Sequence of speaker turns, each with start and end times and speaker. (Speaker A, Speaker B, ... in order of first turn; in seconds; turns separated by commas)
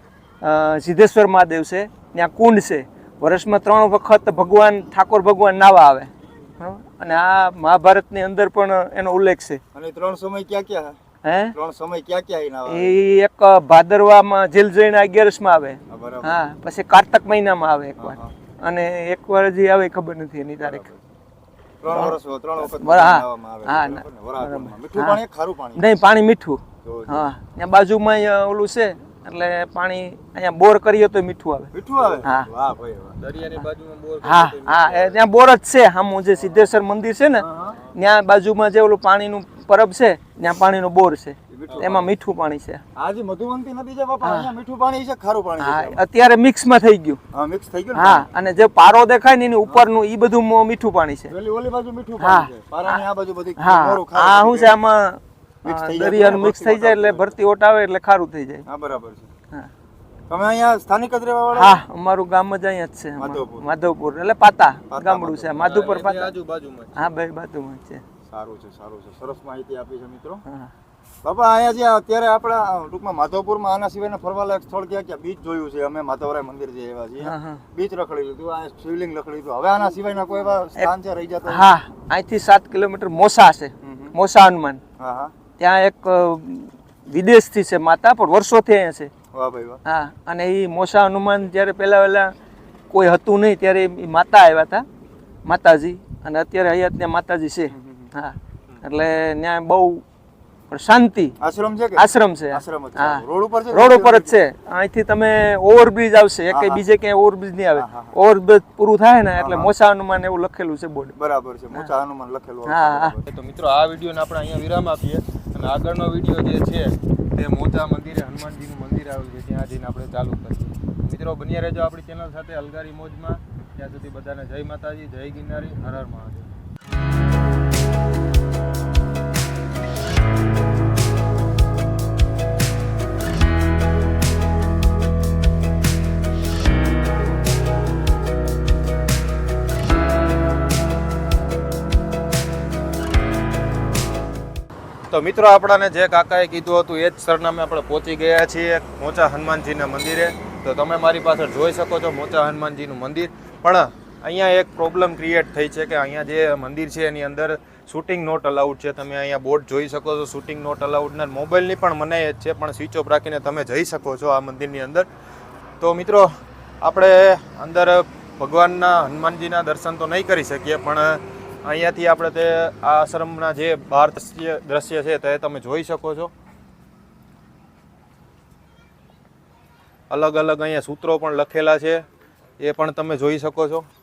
Speaker A: 0.4-9.6, Speaker B: 9.7-11.0, Speaker A: 11.2-11.5, Speaker B: 11.5-12.9, Speaker A: 12.7-20.8, Speaker B: 15.9-16.4, Speaker B: 18.0-18.3, Speaker B: 20.6-21.0, Speaker B: 21.8-25.9, Speaker A: 21.9-25.2, Speaker A: 25.7-32.5, Speaker B: 26.8-27.2, Speaker B: 31.7-33.2, Speaker C: 33.2-35.2, Speaker A: 34.2-42.8, Speaker B: 37.4-37.8, Speaker B: 41.5-42.1, Speaker B: 42.9-46.0, Speaker A: 44.2-44.5, Speaker A: 45.6-47.2, Speaker B: 47.3-48.3, Speaker A: 47.9-51.3, Speaker B: 51.3-54.8, Speaker A: 52.2-53.0, Speaker A: 53.6-58.6, Speaker B: 55.6-57.3, Speaker B: 58.6-59.3, Speaker B: 60.3-61.8, Speaker A: 61.5-66.3, Speaker B: 63.1-63.7, Speaker B: 64.9-65.6, Speaker C: 65.5-67.0, Speaker A: 66.9-68.0, Speaker B: 68.3-70.4, Speaker A: 70.5-70.7, Speaker B: 71.2-81.7, Speaker A: 77.2-77.6, Speaker A: 81.5-84.8, Speaker B: 83.8-84.1, Speaker B: 85.0-85.3, Speaker A: 85.6-89.1, Speaker B: 89.3-89.8, Speaker A: 89.8-92.3, Speaker A: 92.9-94.9, Speaker A: 95.4-100.0, Speaker B: 97.8-98.1, Speaker A: 100.7-101.3, Speaker B: 101.4-104.4, Speaker A: 102.0-111.2, Speaker B: 106.5-106.8, Speaker B: 107.7-108.2, Speaker B: 109.4-109.7, Speaker B: 111.2-113.3, Speaker A: 112.7-113.1, Speaker C: 113.2-126.5, Speaker C: 145.1-165.1, Speaker C: 165.8-166.3, Speaker C: 166.8-176.3, Speaker C: 180.1-182.1, Speaker C: 182.6-183.9